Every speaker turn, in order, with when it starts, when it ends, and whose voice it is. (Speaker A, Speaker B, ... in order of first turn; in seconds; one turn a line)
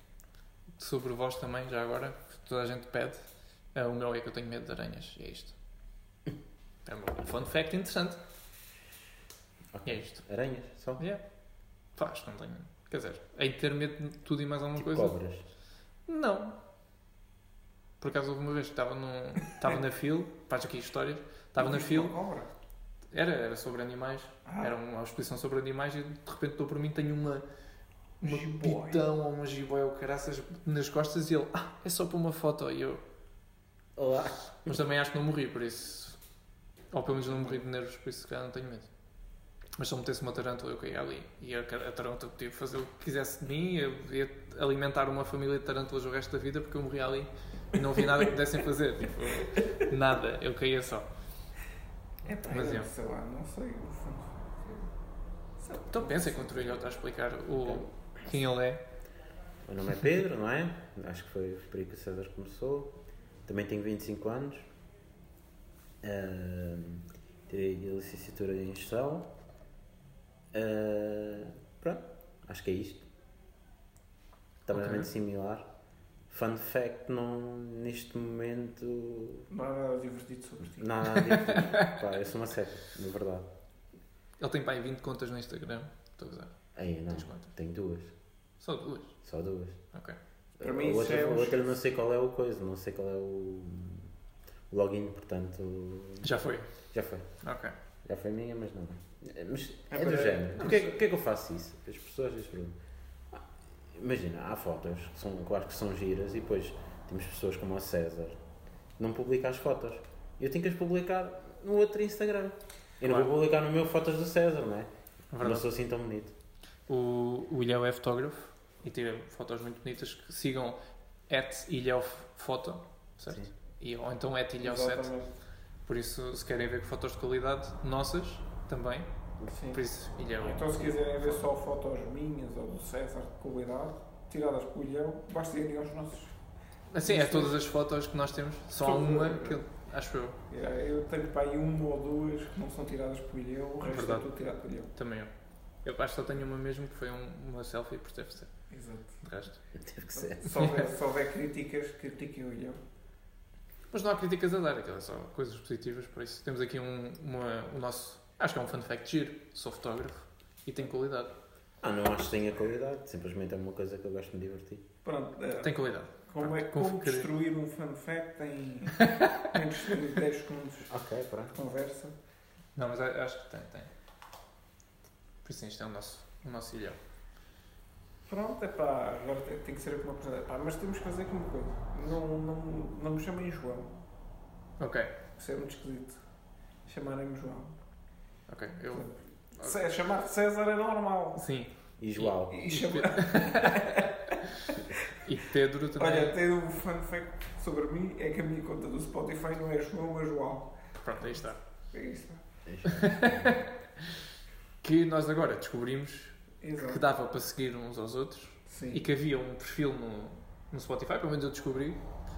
Speaker A: 0.8-5.5
Speaker A: 6.8-8.2
Speaker B: 9.7-11.0
Speaker A: 9.8-10.2
Speaker A: 11.9-15.2
Speaker B: 14.8-15.5
Speaker A: 16.1-16.6
Speaker A: 18.0-22.1
Speaker C: 21.6-22.5
Speaker A: 23.1-27.4
Speaker C: 24.4-24.8
Speaker C: 28.2-29.0
Speaker A: 28.2-33.0
Speaker B: 34.0-34.7
Speaker A: 34.6-36.2
Speaker A: 36.9-38.9
Speaker A: 39.8-51.1
Speaker C: 52.2-54.9
Speaker A: 52.5-52.9
Speaker C: 55.6-56.8
Speaker A: 55.9-58.9
Speaker B: 59.6-64.7
Speaker B: 66.0-69.3
Speaker B: 70.5-73.1
Speaker B: 74.6-75.7
Speaker A: 74.7-75.1
Speaker B: 76.3-79.5
Speaker C: 79.5-80.9
Speaker B: 80.8-83.5
Speaker A: 81.1-82.0
Speaker A: 84.4-86.5
Speaker B: 86.7-88.1
Speaker A: 87.1-87.5
Speaker A: 88.6-89.2
Speaker B: 89.2-89.8
Speaker B: 90.6-94.1
Speaker C: 90.6-91.7
Speaker B: 94.7-96.3
Speaker A: 96.2-96.7
Speaker B: 96.9-97.3
Speaker A: 97.4-97.7
Speaker B: 98.0-102.8
Speaker C: 99.9-100.9
Speaker A: 100.6-100.9
Speaker B: 103.3-108.4
Speaker B: 109.0-114.9
Speaker A: 113.0-113.3
Speaker A: 115.3-115.7
Speaker B: 115.4-116.3
Speaker A: 116.9-125.1
Speaker C: 124.6-125.3
Speaker A: 125.8-129.1
Speaker C: 129.5-129.8
Speaker A: 129.7-131.4
Speaker C: 130.4-136.3
Speaker A: 136.9-140.3
Speaker C: 137.0-137.6
Speaker C: 138.8-139.6
Speaker C: 140.5-144.9
Speaker A: 143.8-144.3
Speaker A: 144.9-145.3
Speaker A: 145.8-148.5
Speaker C: 148.7-149.2
Speaker A: 149.2-149.6
Speaker B: 149.7-150.6
Speaker C: 150.1-152.8
Speaker A: 153.9-161.3
Speaker B: 161.8-164.8
Speaker C: 165.0-165.8
Speaker A: 165.6-167.3
Speaker C: 166.3-170.9
Speaker A: 169.0-169.5
Speaker B: 170.9-171.6
Speaker C: 171.5-172.1
Speaker A: 172.8-173.9
Speaker A: 175.4-177.0
Speaker C: 178.2-183.9
Speaker A: 184.8-185.1
Speaker C: 185.3-186.2
Speaker C: 186.8-187.8
Speaker A: 188.5-189.8
Speaker C: 188.9-191.4
Speaker A: 191.3-194.1
Speaker B: 192.0-192.6
Speaker C: 192.5-195.1
Speaker A: 194.6-196.4
Speaker C: 196.0-200.7
Speaker A: 201.0-201.6
Speaker C: 201.9-202.4
Speaker B: 202.7-203.6
Speaker A: 202.8-204.2
Speaker A: 204.8-212.0
Speaker C: 206.6-207.0
Speaker C: 208.7-209.0